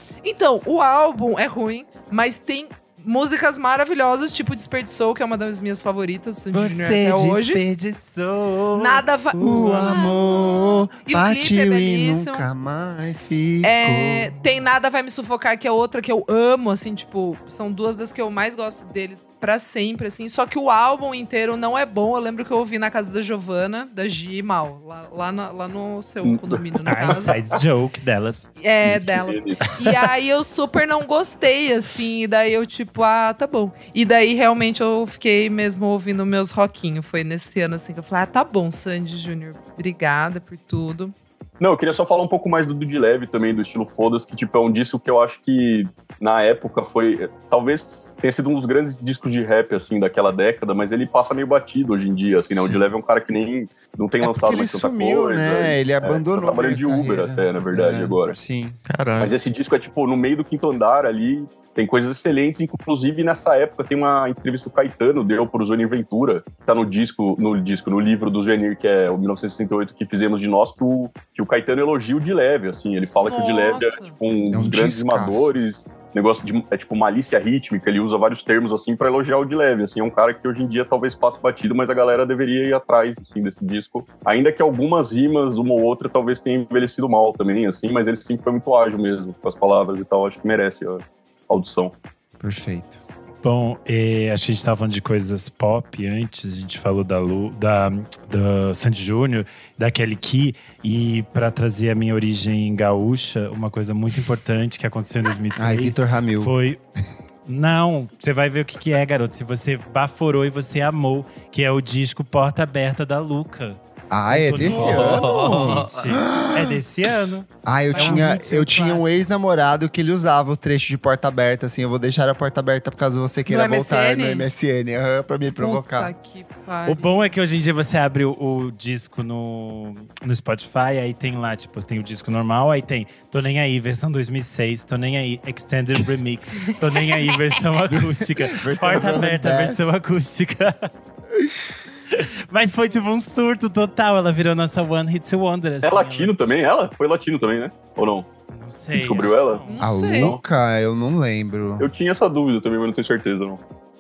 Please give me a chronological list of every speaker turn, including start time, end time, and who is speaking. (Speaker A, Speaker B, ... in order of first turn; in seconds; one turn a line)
Speaker A: 0.2-7.6
Speaker B: 6.5-10.2
Speaker A: 8.7-12.5
Speaker C: 9.4-14.3
Speaker A: 13.6-27.4
Speaker D: 26.2-27.6
Speaker B: 26.9-28.5
Speaker A: 28.6-41.1
Speaker D: 28.8-29.7
Speaker B: 29.6-30.1
Speaker D: 41.6-58.4
Speaker E: 52.6-52.8
Speaker C: 54.2-58.8
Speaker E: 58.9-59.3
Speaker D: 59.2-92.0
Speaker A: 73.2-74.2
Speaker C: 74.5-75.5
Speaker C: 92.4-93.0
Speaker B: 93.4-106.8
Speaker C: 105.6-106.5
Speaker B: 107.5-118.7
Speaker C: 114.1-116.8
Speaker E: 114.6-116.2
Speaker C: 117.6-126.1
Speaker A: 117.9-119.2
Speaker A: 123.5-124.5
Speaker A: 125.6-127.1
Speaker B: 126.8-140.9
Speaker C: 137.9-139.9
Speaker B: 142.1-146.3
Speaker D: 145.8-148.3
Speaker B: 148.5-150.0
Speaker D: 148.9-150.4
Speaker A: 149.7-150.4
Speaker C: 149.8-151.9
Speaker D: 151.8-153.6